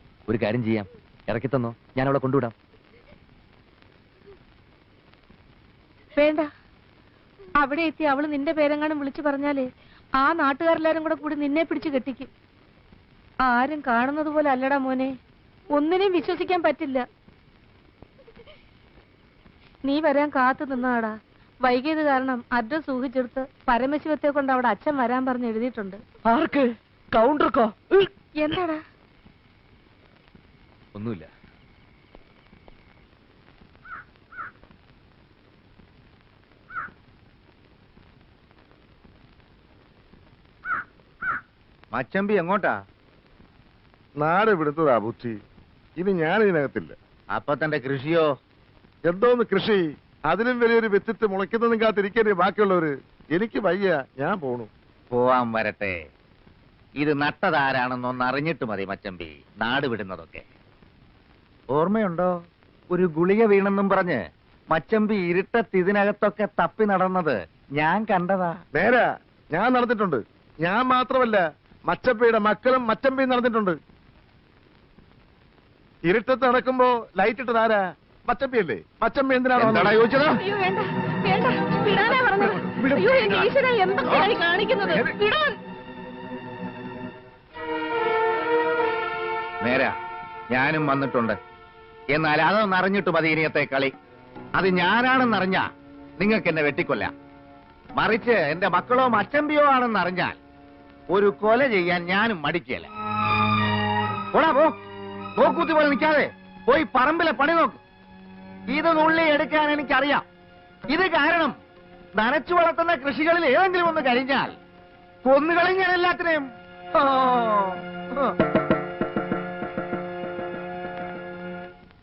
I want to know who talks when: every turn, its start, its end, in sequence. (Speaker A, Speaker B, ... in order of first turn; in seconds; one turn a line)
Speaker A: 0.3-2.5
Speaker B: 6.2-6.5
Speaker B: 7.6-9.7
Speaker B: 10.2-12.3
Speaker B: 13.4-15.1
Speaker B: 15.7-17.1
Speaker B: 19.9-26.0
Speaker A: 26.2-28.1
Speaker B: 28.4-28.8
Speaker A: 30.9-31.3
Speaker C: 41.9-42.8
Speaker D: 44.2-45.4
Speaker D: 46.0-47.0
Speaker C: 47.3-48.3
Speaker D: 49.1-54.7
Speaker C: 55.1-56.0
Speaker C: 57.0-60.5
Speaker C: 61.7-62.3
Speaker C: 62.9-68.6
Speaker D: 68.8-73.8
Speaker D: 76.1-80.0
Speaker C: 79.6-80.4
Speaker B: 80.3-85.6
Speaker D: 82.4-83.5
Speaker D: 84.9-85.2
Speaker C: 89.6-90.0
Speaker C: 90.5-91.4
Speaker C: 92.1-93.9
Speaker C: 94.6-95.7
Speaker C: 96.2-97.1
Speaker C: 98.0-100.4
Speaker C: 101.1-102.9
Speaker C: 104.3-104.8
Speaker C: 105.4-107.8
Speaker C: 108.7-110.2
Speaker C: 110.9-111.6
Speaker C: 112.2-114.6
Speaker C: 115.2-118.3